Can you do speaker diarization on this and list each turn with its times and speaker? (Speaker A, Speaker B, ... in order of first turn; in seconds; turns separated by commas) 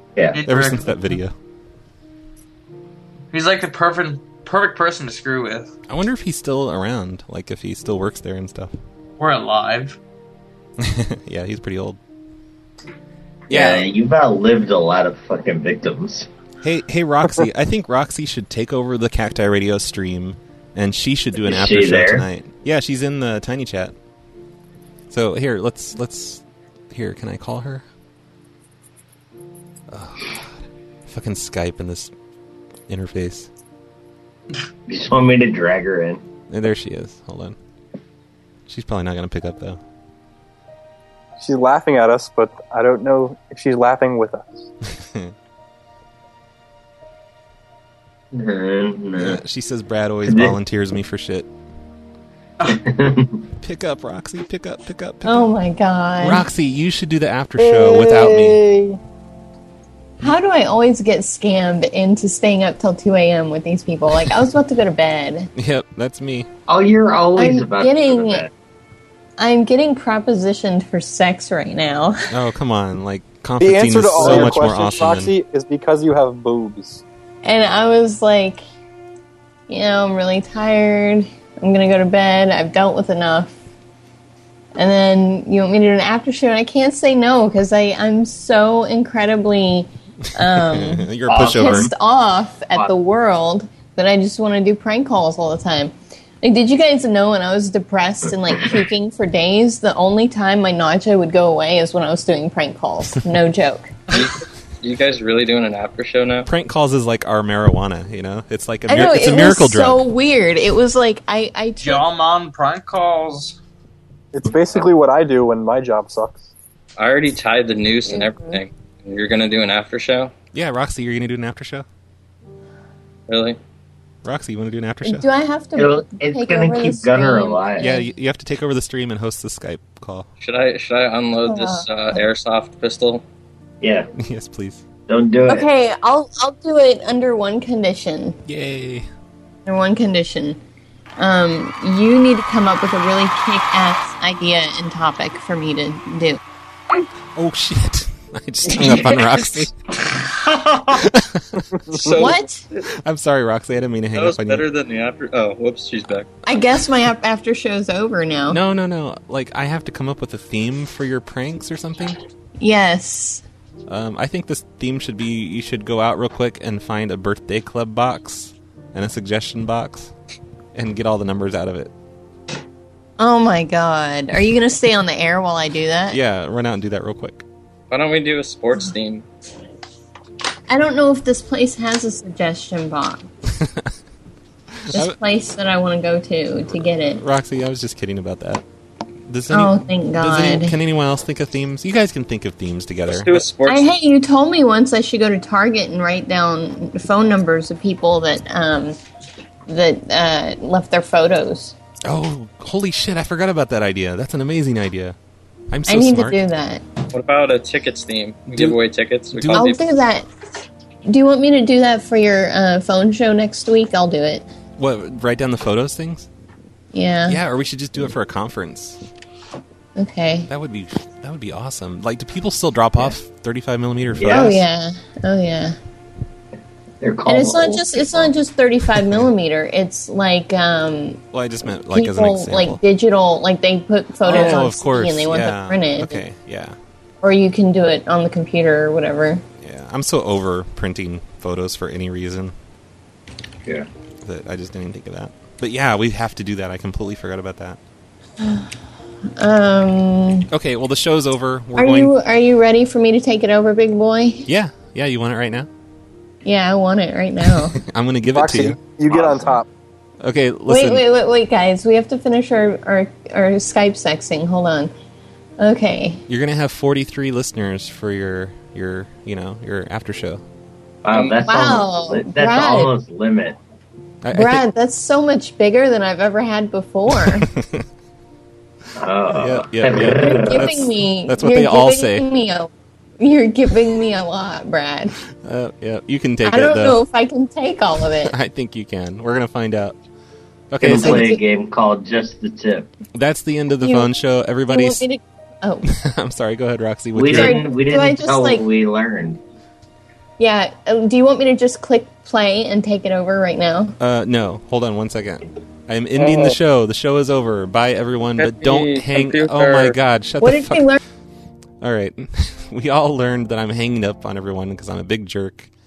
Speaker A: 0.1-0.4, Speaker B: 0.3-1.0, Speaker C: 0.4-1.3, Speaker B: 3.3-5.7, Speaker C: 5.9-8.7, Speaker B: 9.2-10.0, Speaker C: 10.8-12.0, Speaker C: 13.5-13.9, Speaker A: 13.5-16.3, Speaker C: 16.6-23.9, Speaker A: 21.4-22.2, Speaker C: 25.1-27.8, Speaker C: 29.9-32.1, Speaker C: 32.9-33.5, Speaker A: 34.9-36.2, Speaker C: 36.5-37.6, Speaker C: 38.7-39.8, Speaker D: 41.4-44.7, Speaker C: 45.0-45.3, Speaker A: 48.3-49.4, Speaker C: 49.2-51.5, Speaker A: 50.3-50.5, Speaker A: 52.6-53.4, Speaker C: 53.6-55.5, Speaker E: 55.2-56.5, Speaker C: 56.2-58.6, Speaker D: 58.0-58.4, Speaker E: 60.2-65.5, Speaker C: 65.5-66.5, Speaker A: 66.7-68.5, Speaker E: 67.3-68.4, Speaker E: 69.4-72.3, Speaker C: 72.3-75.3, Speaker D: 73.6-77.0, Speaker A: 74.2-74.5, Speaker E: 77.4-78.6, Speaker E: 79.7-83.6, Speaker E: 84.8-103.9, Speaker C: 90.3-91.9, Speaker A: 91.3-91.9, Speaker F: 104.1-106.5, Speaker C: 106.5-110.0, Speaker E: 108.9-112.0, Speaker B: 111.8-113.6, Speaker D: 114.3-116.5, Speaker F: 117.0-120.3, Speaker E: 118.0-118.6, Speaker C: 120.5-121.8, Speaker F: 123.3-123.6, Speaker C: 124.2-125.3, Speaker E: 125.0-127.8, Speaker A: 125.8-128.0, Speaker C: 127.8-130.3, Speaker F: 130.4-133.2, Speaker E: 131.5-131.8, Speaker A: 133.8-134.1, Speaker C: 134.2-134.8, Speaker A: 135.1-135.7, Speaker E: 135.5-138.4, Speaker C: 138.4-139.1, Speaker E: 139.7-140.6, Speaker E: 141.2-146.4, Speaker C: 147.3-149.7, Speaker B: 150.0-150.8, Speaker C: 150.9-151.6, Speaker D: 151.9-152.2, Speaker F: 151.9-152.8, Speaker E: 152.1-152.6, Speaker C: 152.9-154.7, Speaker F: 154.1-156.3, Speaker E: 156.4-158.6, Speaker C: 158.5-162.2, Speaker E: 162.6-163.4, Speaker C: 163.9-170.1, Speaker C: 170.7-171.9, Speaker E: 173.2-176.2, Speaker C: 176.1-177.4, Speaker F: 177.9-179.2, Speaker E: 180.7-183.2, Speaker C: 183.6-183.9, Speaker C: 184.8-185.2, Speaker E: 184.9-187.2, Speaker C: 186.7-188.6, Speaker C: 189.3-193.5, Speaker E: 189.5-190.7, Speaker F: 193.1-193.9, Speaker E: 193.7-198.9, Speaker E: 199.7-201.7, Speaker C: 202.0-205.2, Speaker C: 205.7-206.4, Speaker E: 205.9-206.8, Speaker F: 207.1-209.8, Speaker C: 208.5-208.8, Speaker C: 209.3-209.8, Speaker E: 209.5-210.2, Speaker E: 211.1-214.4, Speaker C: 214.8-216.3, Speaker E: 216.9-217.4, Speaker C: 217.2-219.0, Speaker E: 219.9-220.5, Speaker C: 220.5-224.6, Speaker A: 224.2-224.6, Speaker E: 224.2-225.7, Speaker A: 227.0-228.3, Speaker E: 227.2-231.2, Speaker C: 231.3-232.8, Speaker E: 231.9-236.2, Speaker C: 234.2-236.8, Speaker A: 234.3-234.6, Speaker E: 237.2-239.4, Speaker C: 239.6-242.5, Speaker C: 244.2-247.8, Speaker E: 248.4-248.7, Speaker E: 249.3-250.5, Speaker C: 250.5-252.1, Speaker E: 251.8-254.5, Speaker C: 254.5-255.7, Speaker E: 256.4-257.8, Speaker C: 257.4-258.8, Speaker D: 258.3-259.7, Speaker A: 259.1-259.6, Speaker C: 260.2-261.1, Speaker E: 260.7-264.9, Speaker E: 265.6-266.2, Speaker C: 266.3-270.4, Speaker A: 271.0-273.6, Speaker E: 271.4-272.9, Speaker C: 274.2-274.7, Speaker E: 274.3-277.5, Speaker C: 277.1-277.8, Speaker A: 279.0-280.8, Speaker C: 279.3-282.3, Speaker E: 280.1-285.1, Speaker C: 285.4-287.0, Speaker E: 286.4-288.3, Speaker C: 288.2-290.0, Speaker C: 290.7-291.4, Speaker A: 290.8-292.9, Speaker E: 290.9-291.3, Speaker C: 293.1-295.0, Speaker E: 293.8-294.1, Speaker E: 294.7-295.8, Speaker C: 295.8-297.6, Speaker A: 297.1-299.4, Speaker E: 297.3-298.6, Speaker E: 300.4-303.9, Speaker C: 304.0-311.0, Speaker F: 306.2-306.5, Speaker F: 308.4-309.9, Speaker E: 310.4-311.0, Speaker C: 311.8-315.7